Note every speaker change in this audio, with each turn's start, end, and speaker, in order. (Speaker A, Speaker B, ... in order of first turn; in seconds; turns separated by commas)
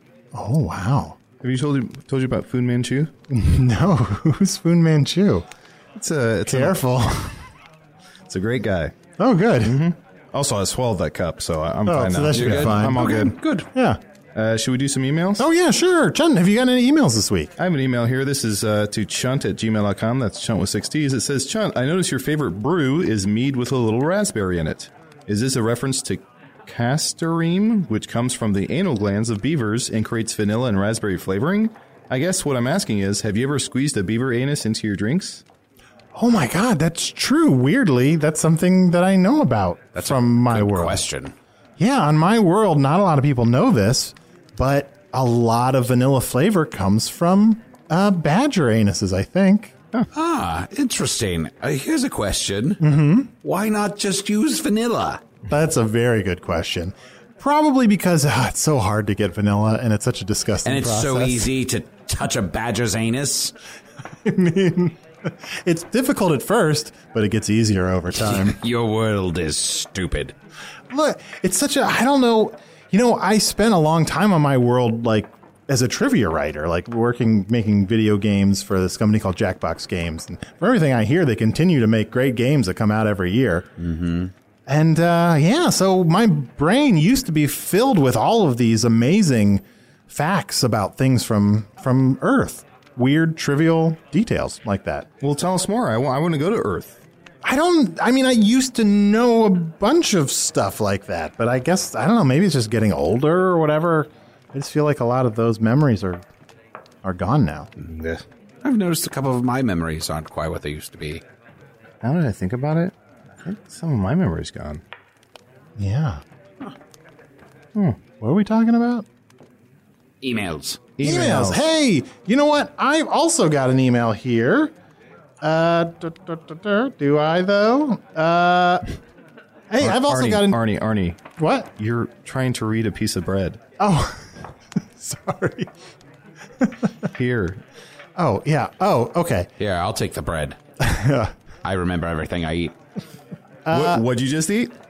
Speaker A: 0.3-1.2, Speaker B: 1.4-3.1, Speaker A: 3.3-5.5, Speaker B: 6.0-6.8, Speaker A: 6.5-7.3, Speaker B: 8.3-8.9, Speaker A: 9.2-9.8, Speaker B: 9.6-13.4, Speaker A: 11.8-13.1, Speaker C: 12.3-13.7, Speaker A: 13.7-14.0, Speaker B: 14.3-15.4, Speaker A: 15.4-17.5, Speaker B: 17.6-35.4, Speaker A: 36.1-41.0, Speaker C: 40.0-41.3, Speaker A: 41.8-49.7, Speaker C: 50.1-52.8, Speaker A: 52.8-53.3, Speaker C: 53.4-55.2, Speaker A: 55.5-61.5, Speaker C: 60.6-63.5, Speaker A: 64.2-68.6, Speaker C: 68.2-70.3, Speaker A: 70.9-83.7, Speaker C: 83.8-84.3, Speaker A: 84.7-95.1, Speaker B: 95.2-97.0, Speaker A: 97.4-106.2, Speaker A: 107.0-107.7, Speaker B: 107.9-108.2, Speaker C: 108.6-111.2, Speaker B: 112.0-114.8, Speaker A: 115.8-116.2, Speaker B: 117.7-118.0, Speaker A: 118.2-119.0, Speaker C: 120.2-120.8, Speaker B: 121.0-121.6, Speaker A: 121.0-124.7, Speaker A: 125.4-128.8, Speaker A: 129.7-130.6, Speaker B: 129.8-131.2, Speaker A: 131.4-131.7, Speaker B: 131.8-133.6, Speaker A: 133.8-134.2, Speaker A: 135.0-135.7, Speaker B: 137.2-137.6, Speaker A: 138.2-139.5, Speaker C: 139.6-140.6, Speaker A: 140.8-141.3, Speaker C: 141.6-142.7, Speaker A: 143.7-144.0, Speaker B: 143.7-144.7